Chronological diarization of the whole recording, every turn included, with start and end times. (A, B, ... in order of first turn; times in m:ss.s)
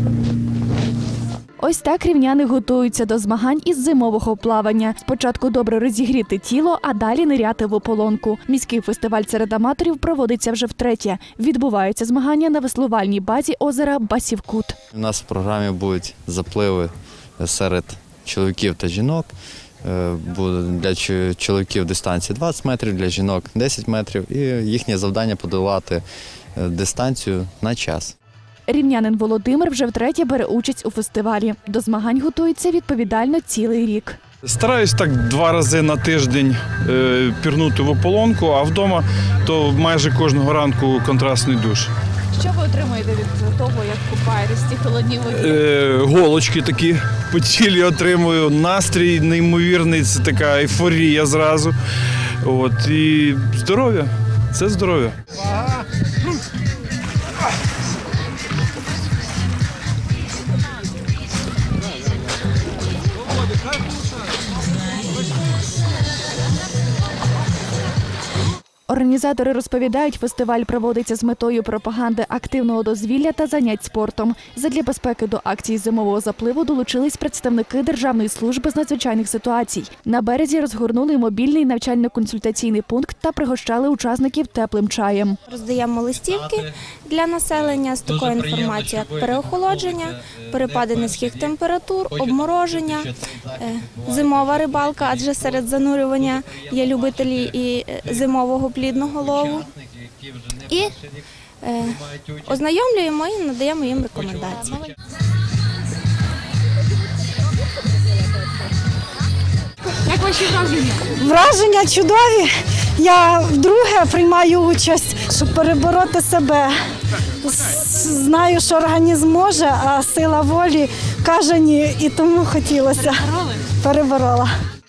0:01.6-0:14.8 A
0:14.9-0:19.3 B
0:19.8-0:26.0 B
0:26.6-0:28.2 B
0:28.7-0:34.2 A
0:34.4-0:41.9 C
0:42.4-0:45.6 A
0:45.3-0:51.7 C
0:52.4-0:55.2 C
1:08.9-1:25.4 A
1:25.5-1:39.7 D
1:40.7-1:41.0 D
1:41.6-1:44.9 D
1:50.1-1:56.8 E
1:57.4-2:04.5 E